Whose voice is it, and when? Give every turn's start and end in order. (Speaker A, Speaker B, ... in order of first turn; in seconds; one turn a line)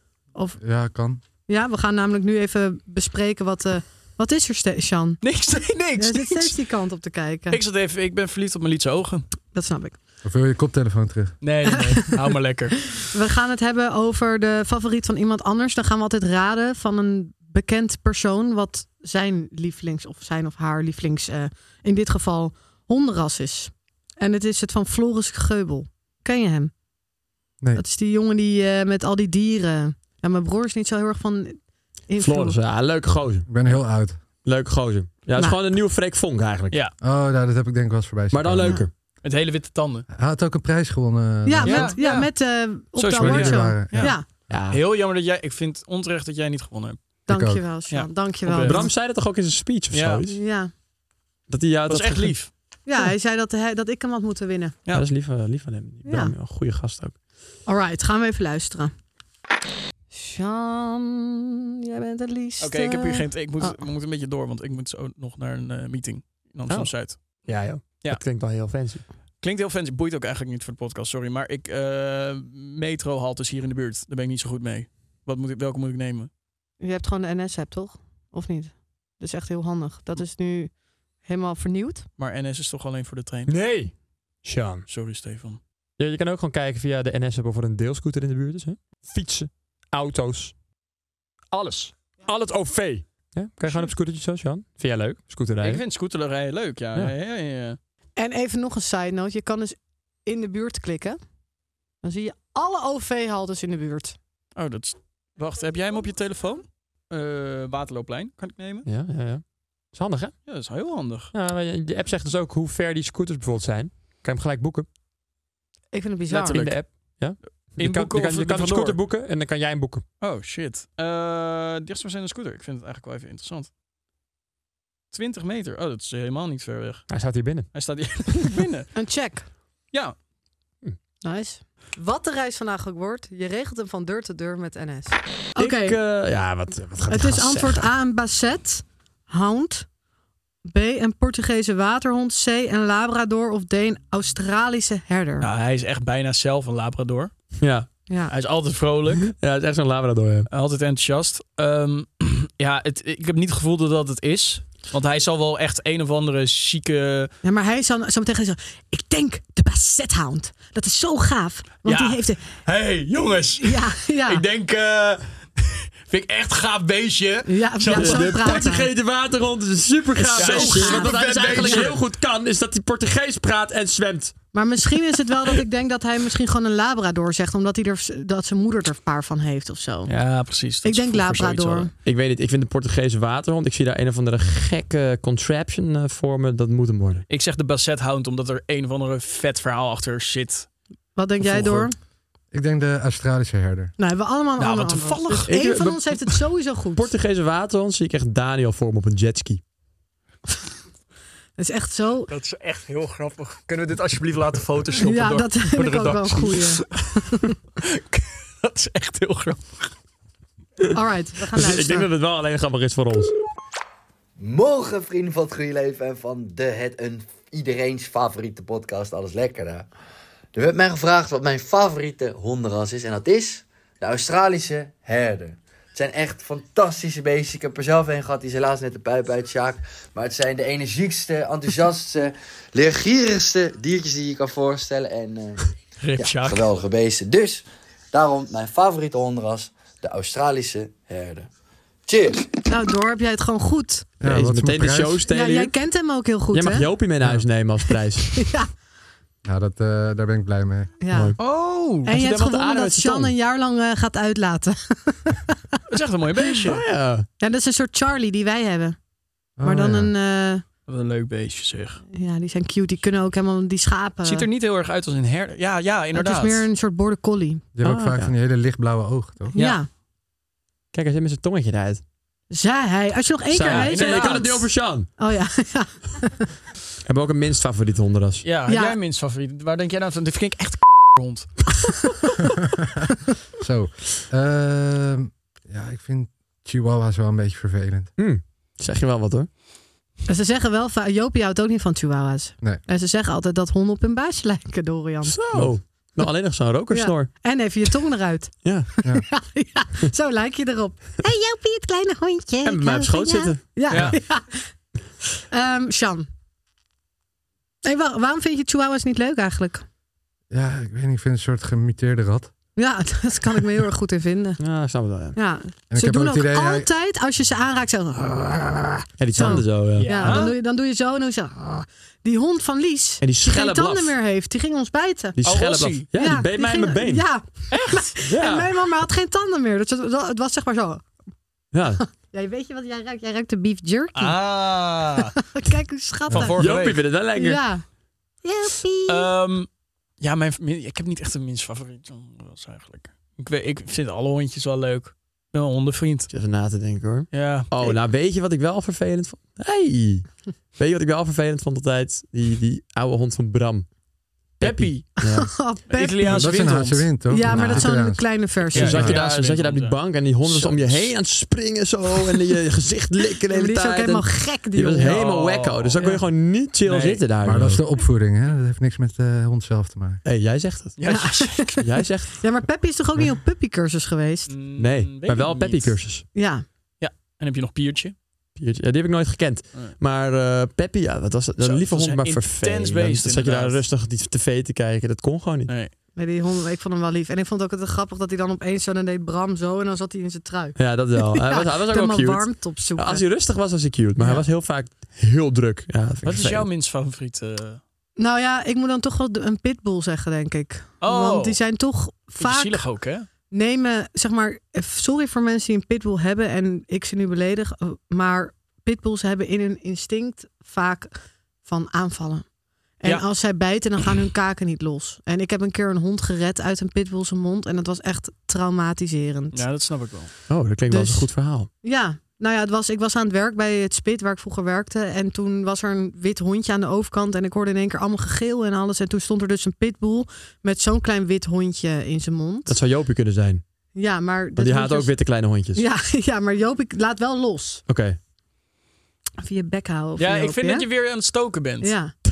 Speaker A: 0.3-0.6
Speaker B: 0.6-1.2
Speaker A: 1.5-5.2
Speaker C: 5.2-6.5
Speaker A: 6.0-7.6
Speaker C: 7.5-9.2
Speaker A: 9.5-10.0
Speaker B: 10.2-11.4
Speaker C: 11.4-12.8
Speaker A: 11.7-12.1
Speaker A: 13.1-26.7
Speaker A: 27.7-32.6
Speaker D: 32.2-33.5
Speaker B: 33.5-34.2
Speaker D: 34.4-36.8
Speaker B: 37.0-38.8
Speaker D: 38.3-38.9
Speaker C: 39.2-40.0
Speaker B: 40.1-42.0
Speaker A: 41.5-44.2
Speaker C: 41.6-42.3
Speaker C: 43.0-44.1
Speaker B: 43.2-44.2
Speaker D: 44.5-44.8
Speaker C: 44.7-47.0
Speaker A: 47.3-48.9
Speaker B: 47.3-47.6
Speaker C: 47.9-48.9
Speaker D: 48.6-50.4
Speaker C: 49.9-50.2
Speaker A: 50.3-50.7
Speaker D: 51.5-52.4
Speaker C: 51.9-52.5
Speaker A: 52.9-54.8
Speaker D: 54.9-57.1
Speaker A: 56.0-56.3
Speaker A: 57.7-58.9
Speaker A: 60.1-63.8
Speaker C: 62.6-68.2
Speaker D: 66.7-69.0
Speaker C: 69.4-76.3
Speaker A: 76.8-82.0
Speaker C: 82.2-83.5
Speaker D: 83.5-84.8
Speaker C: 84.9-85.6
Speaker D: 86.0-90.6
Speaker D: 91.5-95.8
Speaker C: 95.6-97.8
Speaker A: 98.2-101.2
Speaker A: 102.0-104.2
Speaker C: 104.5-108.8
Speaker D: 108.8-110.4
Speaker C: 110.5-111.3
Speaker D: 111.3-114.9
Speaker A: 115.9-116.7
Speaker C: 116.3-119.0
Speaker D: 116.4-120.0
Speaker C: 120.2-123.7
Speaker C: 125.1-127.2
Speaker D: 127.1-127.7
Speaker C: 127.7-128.9
Speaker A: 128.9-129.4
Speaker A: 131.2-136.0
Speaker D: 135.6-137.9
Speaker A: 137.1-139.9
Speaker A: 140.7-145.5
Speaker C: 145.4-147.3
Speaker D: 147.6-147.9
Speaker A: 148.1-148.3
Speaker C: 148.3-149.3
Speaker D: 149.2-150.5
Speaker C: 150.5-157.3
Speaker A: 157.4-162.4
Speaker C: 161.8-168.6
Speaker A: 163.6-164.4
Speaker A: 167.5-168.9
Speaker D: 167.9-174.4
Speaker A: 170.2-171.9
Speaker C: 170.3-172.0
Speaker A: 174.5-180.1
Speaker C: 180.1-181.9
Speaker A: 180.8-181.9
Speaker D: 182.0-187.2
Speaker C: 187.3-190.7
Speaker A: 191.2-191.9
Speaker D: 191.6-191.8
Speaker B: 192.5-193.9
Speaker A: 194.0-197.1
Speaker C: 194.6-195.5
Speaker D: 195.3-196.2
Speaker D: 196.9-199.6
Speaker A: 201.6-202.3
Speaker C: 202.3-207.2
Speaker A: 205.0-207.5
Speaker C: 207.8-209.9
Speaker A: 210.9-212.1
Speaker D: 211.5-213.3
Speaker E: 214.4-219.9
Speaker E: 220.5-235.6
Speaker C: 236.0-236.7
Speaker E: 236.2-241.5
Speaker E: 242.1-242.5
Speaker A: 242.7-244.1
Speaker B: 244.2-245.2
Speaker D: 244.2-245.7
Speaker A: 245.3-246.9
Speaker D: 246.5-248.5
Speaker A: 248.3-248.7
Speaker B: 249.4-251.0
Speaker A: 251.0-251.4
Speaker D: 251.1-251.4
Speaker C: 251.4-252.1
Speaker D: 252.0-253.3
Speaker A: 252.0-255.8
Speaker C: 255.9-256.8
Speaker D: 256.7-257.3
Speaker A: 257.4-259.0
Speaker B: 259.6-260.1
Speaker A: 259.6-260.6
Speaker C: 260.9-262.0
Speaker A: 262.1-264.5
Speaker C: 264.2-266.7
Speaker A: 266.1-267.6
Speaker B: 267.8-269.6
Speaker D: 267.8-268.3
Speaker A: 269.5-269.9
Speaker C: 269.6-269.8
Speaker D: 270.9-272.0
Speaker A: 272.5-276.5
Speaker D: 273.5-275.1
Speaker C: 273.6-274.6
Speaker D: 277.0-278.4
Speaker C: 278.4-281.7
Speaker A: 278.7-279.0
Speaker B: 283.6-288.1
Speaker D: 288.2-289.5
Speaker A: 290.3-295.4
Speaker D: 295.3-297.3
Speaker A: 296.9-304.7
Speaker D: 298.6-298.9
Speaker D: 302.6-304.0
Speaker C: 303.9-304.2
Speaker A: 305.5-306.3
Speaker A: 307.8-309.8
Speaker B: 310.5-312.5
Speaker A: 312.8-314.6
Speaker D: 314.6-315.4
Speaker A: 315.3-325.4
Speaker B: 315.9-316.9
Speaker D: 319.2-320.4
Speaker C: 320.0-320.5
Speaker D: 323.2-324.1
Speaker D: 325.4-327.3
Speaker C: 325.4-326.1
Speaker A: 326.1-331.1
Speaker C: 327.7-328.1
Speaker D: 328.2-328.7
Speaker D: 331.7-332.0
Speaker A: 332.0-334.4
Speaker C: 334.2-335.3
Speaker A: 335.4-337.8
Speaker C: 336.3-337.0
Speaker D: 336.6-337.6
Speaker A: 338.4-339.3
Speaker C: 339.1-339.7
Speaker C: 340.2-346.3
Speaker D: 346.3-353.9
Speaker C: 347.3-347.9
Speaker C: 354.6-355.2
Speaker D: 354.6-355.5
Speaker A: 355.3-356.4
Speaker C: 355.9-357.1
Speaker B: 356.2-358.4
Speaker A: 357.3-359.0
Speaker D: 357.5-357.9
Speaker D: 358.7-367.8
Speaker C: 358.7-361.1
Speaker B: 358.9-359.2
Speaker A: 363.5-365.2
Speaker C: 365.0-366.2
Speaker C: 366.8-367.2
Speaker B: 367.4-370.2
Speaker D: 370.2-372.4
Speaker C: 371.0-371.8
Speaker A: 371.1-371.8
Speaker A: 372.4-374.5
Speaker C: 374.5-376.0
Speaker D: 374.8-376.2
Speaker A: 376.3-376.6
Speaker C: 377.0-378.1
Speaker D: 378.6-385.7
Speaker C: 381.6-383.8
Speaker A: 386.2-393.2
Speaker D: 390.8-396.7
Speaker C: 396.2-397.8
Speaker A: 398.2-402.9
Speaker C: 401.0-401.6
Speaker C: 402.4-403.2
Speaker A: 403.5-412.5
Speaker A: 413.0-419.6
Speaker C: 419.5-420.3
Speaker D: 420.5-421.7
Speaker A: 420.9-432.8
Speaker D: 432.7-433.6
Speaker A: 433.9-435.2
Speaker D: 434.6-435.8
Speaker A: 435.7-437.8
Speaker D: 437.9-438.2
Speaker A: 439.4-440.9
Speaker C: 440.2-441.9
Speaker A: 441.8-442.1